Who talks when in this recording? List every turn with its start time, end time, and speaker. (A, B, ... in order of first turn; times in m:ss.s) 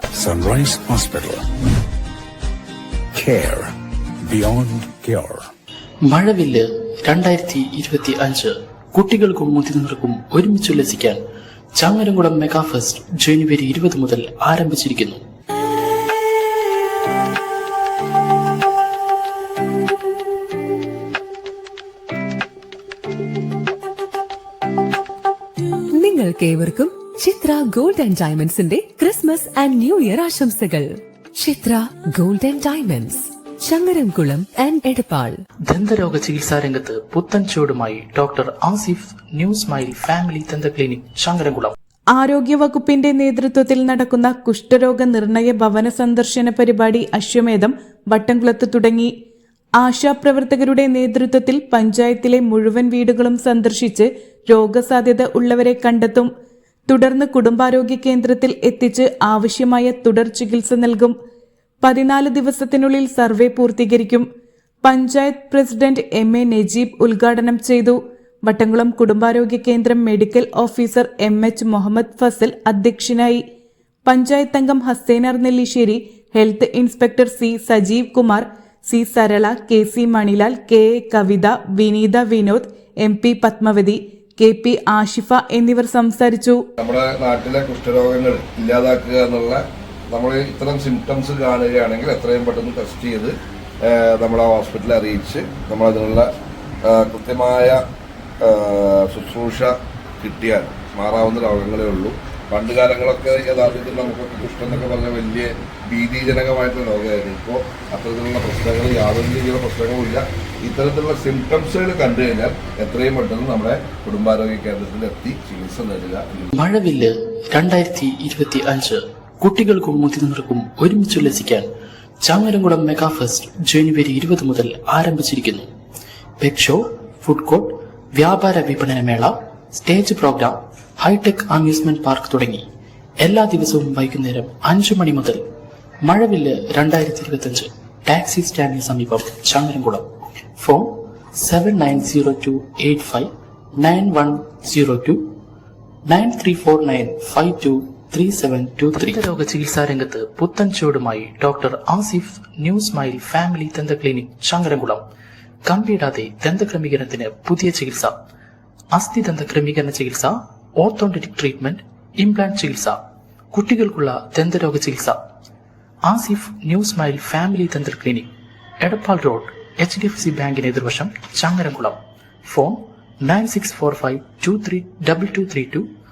0:00.2-0:01.4 A
0:03.1-0:03.7 A
0:04.2-0:05.5 A
0:06.0-0:11.2 B
0:11.8-0:15.2 B
0:25.9-0:35.4 C
0:35.7-0:41.8 B
0:42.1-0:49.1 D
0:49.8-0:56.3 D
0:56.9-1:01.1 D
1:01.8-1:04.2 D
1:04.8-1:13.4 D
1:14.0-1:26.6 D
1:26.8-1:36.3 E
1:36.8-1:37.8 E
1:38.4-1:56.4 E
1:56.5-2:01.7 B
2:02.2-2:05.7 B
2:06.4-2:12.7 B
2:13.2-2:15.4 B
2:16.0-2:25.4 B
2:26.1-2:35.0 B
2:35.6-2:38.1 B
2:38.9-2:43.0 B
2:43.5-2:45.2 B
2:46.0-2:55.9 B